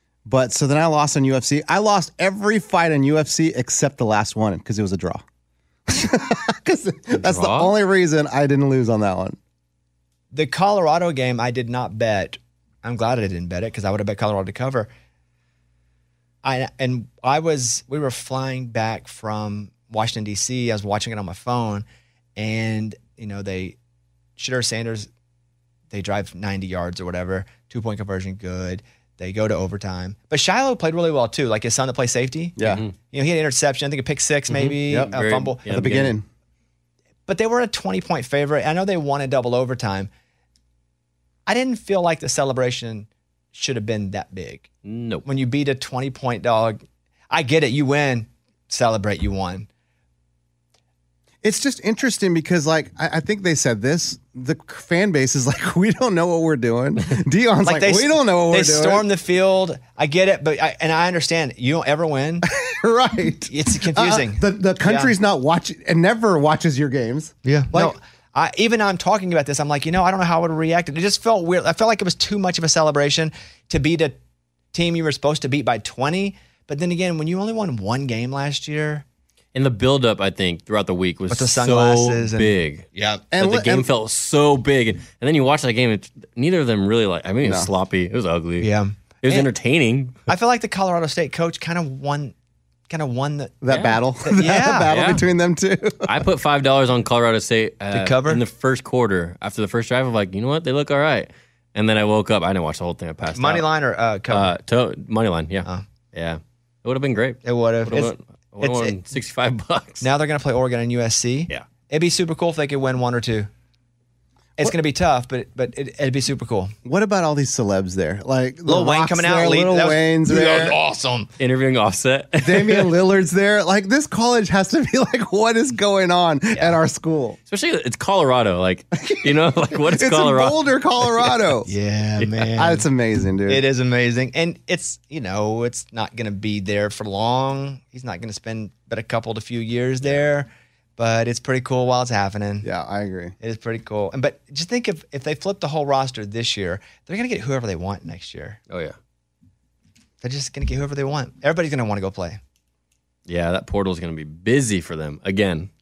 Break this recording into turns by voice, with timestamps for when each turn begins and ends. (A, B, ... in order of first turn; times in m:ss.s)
0:00.2-0:05.2 A
0:05.9-0:09.4 A
0:07.2-0:07.7 B
0:10.3-0:14.9 C
0:16.4-0:21.8 C
0:22.4-0:23.8 C
0:24.4-0:25.1 C
0:25.9-0:32.6 C
0:32.6-0:32.8 A
0:32.6-0:32.9 B
0:33.1-0:35.6 C
0:34.5-0:36.1 B
0:34.9-0:35.1 A
0:35.6-0:36.2 A
0:37.3-0:40.1 C
0:41.4-0:44.7 C
0:44.8-0:45.2 B
0:45.2-0:49.7 C
0:51.4-0:59.0 A
0:57.6-1:02.5 C
1:02.5-1:08.0 A
1:03.5-1:05.1 C
1:07.4-1:14.2 C
1:14.7-1:19.0 C
1:19.5-1:28.7 B
1:21.3-1:23.2 C
1:23.3-1:23.9 A
1:27.4-1:27.7 A
1:28.6-1:29.5 C
1:29.2-1:30.2 B
1:30.3-1:32.3 C
1:32.9-1:33.6 C
1:33.6-1:36.2 A
1:33.7-1:34.0 B
1:34.2-1:34.9 C
1:34.9-1:35.2 B
1:36.0-1:43.7 B
1:37.9-1:38.4 C
1:43.3-1:44.5 C
1:44.3-1:50.1 B
1:47.4-1:49.0 C
1:50.0-1:53.5 C
1:54.6-1:56.7 C
1:56.8-2:00.8 A
1:58.6-2:01.3 C
2:01.4-2:02.9 B
2:02.4-2:07.4 A
2:06.5-2:06.8 C
2:07.5-2:10.6 B
2:09.1-2:11.7 A
2:11.6-2:12.8 C
2:12.6-2:13.6 A
2:13.5-2:22.7 C
2:22.6-2:23.3 A
2:23.4-2:28.6 C
2:28.7-2:29.0 B
2:30.2-2:32.4 C
2:33.3-2:35.7 B